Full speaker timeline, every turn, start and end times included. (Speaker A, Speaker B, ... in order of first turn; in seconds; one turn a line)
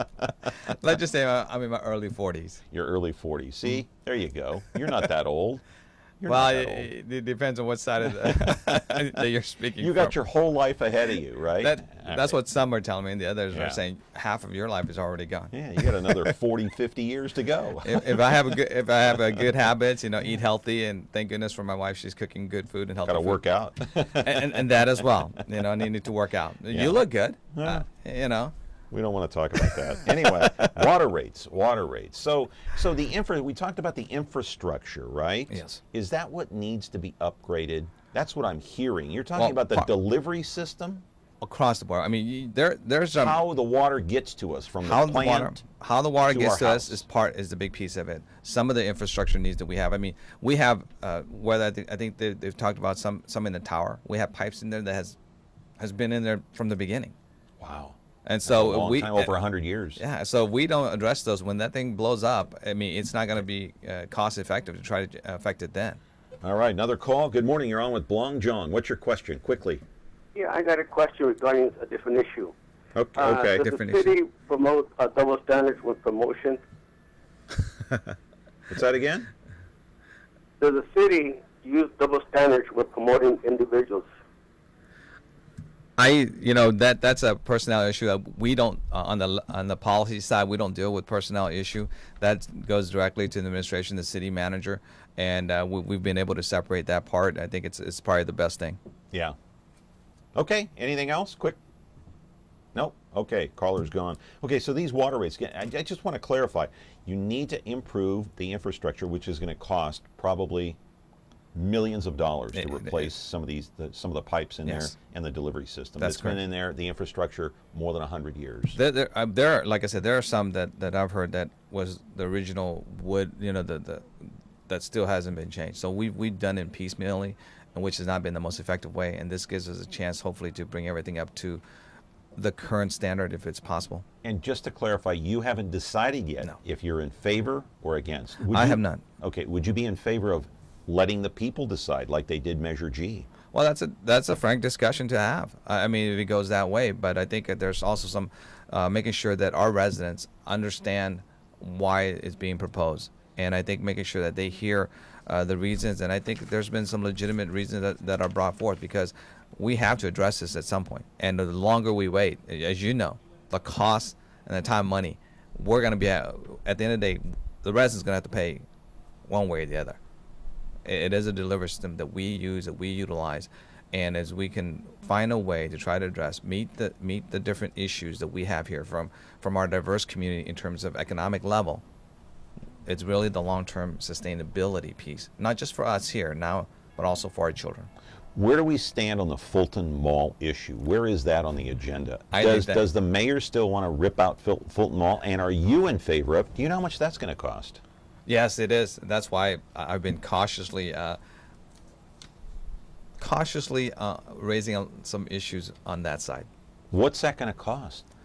Speaker A: 0.5-2.6
Speaker B: 2.7-5.6
Speaker B: 6.2-6.9
Speaker A: 6.3-10.2
Speaker B: 9.8-12.4
Speaker A: 11.6-16.3
Speaker B: 13.5-13.8
Speaker B: 15.5-18.4
Speaker A: 17.8-23.4
Speaker B: 23.1-24.8
Speaker A: 24.2-28.5
Speaker B: 26.7-27.0
Speaker B: 27.5-27.9
Speaker B: 28.9-41.0
Speaker A: 30.2-30.6
Speaker A: 35.5-35.8
Speaker A: 39.4-39.9
Speaker A: 41.4-43.4
Speaker B: 43.1-45.6
Speaker A: 44.8-55.2
Speaker B: 46.3-47.0
Speaker A: 55.8-57.1
Speaker B: 57.6-60.0
Speaker A: 58.2-59.4
Speaker A: 60.0-66.0
Speaker B: 66.4-69.8
Speaker C: 70.4-72.5
Speaker B: 73.0-73.6
Speaker C: 73.2-76.6
Speaker A: 73.6-74.1
Speaker B: 78.7-79.3
Speaker C: 80.6-84.1
Speaker A: 86.0-98.8
Speaker B: 100.3-101.6
Speaker B: 102.8-110.8
Speaker B: 111.5-118.8
Speaker A: 112.5-113.1
Speaker A: 114.7-114.9
Speaker A: 116.0-116.4
Speaker A: 118.8-131.6
Speaker A: 132.4-134.1
Speaker B: 134.2-143.3
Speaker A: 138.5-139.0
Speaker A: 143.5-168.7
Speaker A: 169.3-170.0
Speaker A: 170.9-181.8
Speaker A: 182.9-187.9
Speaker B: 188.3-197.8
Speaker A: 192.3-192.8
Speaker A: 198.3-201.2
Speaker A: 203.2-206.5
Speaker B: 206.9-208.0